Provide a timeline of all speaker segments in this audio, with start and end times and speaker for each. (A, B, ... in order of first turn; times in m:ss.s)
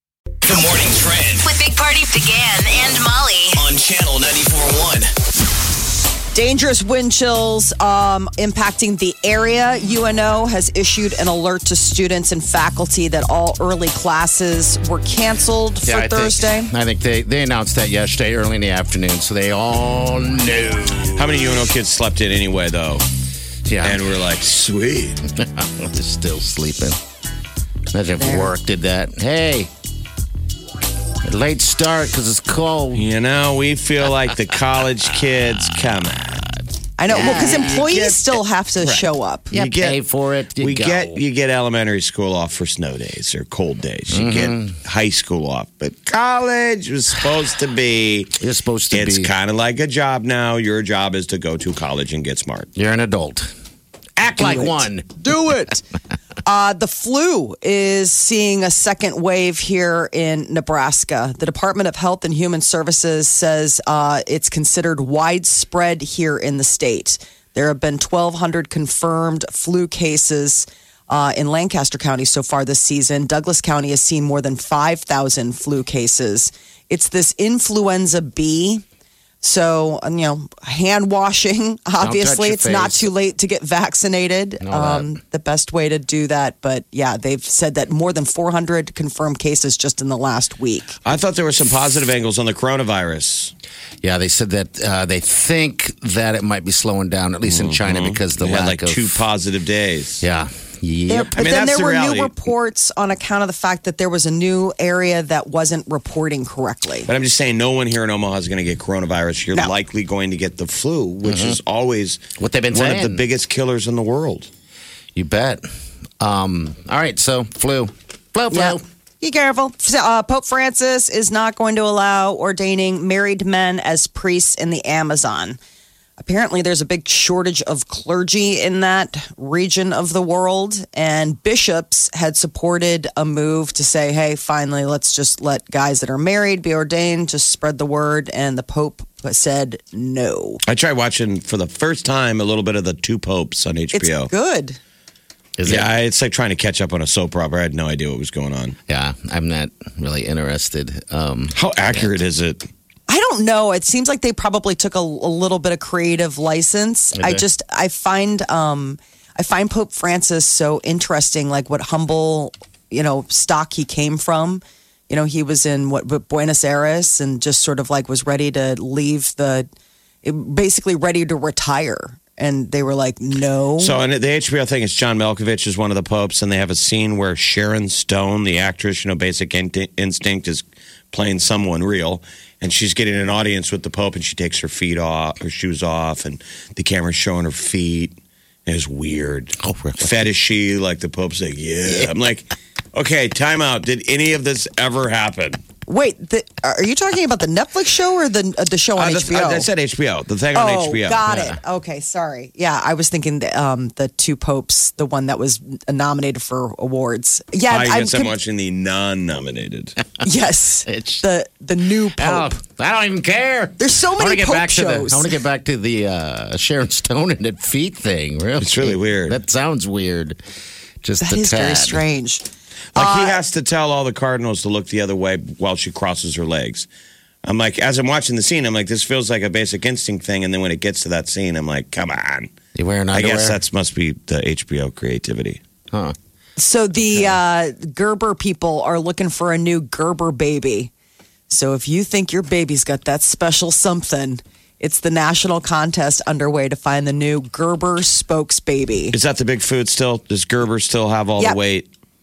0:00.4-0:01.5 A
0:01.4-0:03.6 B
0:03.5-0:05.1 A
0:06.3-0:16.7 C
0:15.8-0:21.6 D
0:21.2-0:23.0 E
0:23.7-0:24.0 D
0:23.8-0:25.2 E
0:25.4-0:27.0 D
0:27.9-0:29.7 D
0:28.2-0:28.5 C
0:31.2-0:33.0 D
0:32.9-0:36.4 E
0:37.0-0:39.5 C
0:37.1-0:38.1 D
0:37.2-0:38.2 E
0:38.8-0:40.0 E
0:39.5-0:41.2 D
0:40.6-0:48.4 E
0:44.1-0:44.8 D
0:48.4-0:49.3 D
0:48.9-0:52.7 E
0:52.8-0:53.5 D
0:54.2-0:55.4 D
0:54.4-0:55.8 C
0:56.5-1:18.8 C
1:19.4-1:31.0 C
1:22.0-1:23.1 D
1:24.6-1:25.1 D
1:31.0-1:33.5 E
1:34.0-1:39.2 D
1:37.4-1:40.2 E
1:40.2-1:41.4 D
1:41.1-1:47.1 C
1:41.3-1:42.3 E
1:47.1-1:54.5 E
1:51.2-1:51.6 D
1:52.4-1:53.2 D
1:55.2-1:55.7 D
1:56.2-1:58.8 D
1:58.5-2:05.6 C
2:06.2-2:20.6 C
2:20.7-2:24.3 E
2:23.9-2:24.8 C
2:25.6-2:25.9 D
2:25.7-2:28.8 E
2:28.9-2:32.1 D
2:31.5-2:32.7 E
2:33.1-2:49.7 C
2:37.2-2:37.4 D
2:50.2-2:54.0 C
2:53.8-3:15.6 E
3:09.6-3:10.2 D
3:15.9-3:19.7 C
3:19.0-3:21.2 E
3:20.5-3:28.3 C
3:21.3-3:21.6 D
3:27.7-3:30.0 E
3:30.2-3:32.5 C
3:30.9-3:31.2 D
3:32.2-3:40.4 D
3:33.8-3:35.4 C
3:38.6-3:39.4 E
3:41.0-3:42.0 D
3:41.2-3:42.4 C
3:43.0-3:46.9 E
3:43.0-3:43.4 C
3:47.4-3:52.5 E
3:52.8-3:53.6 D
3:53.1-3:55.6 E
3:56.6-4:00.9 C
4:01.5-4:09.2 C
4:09.1-4:11.9 E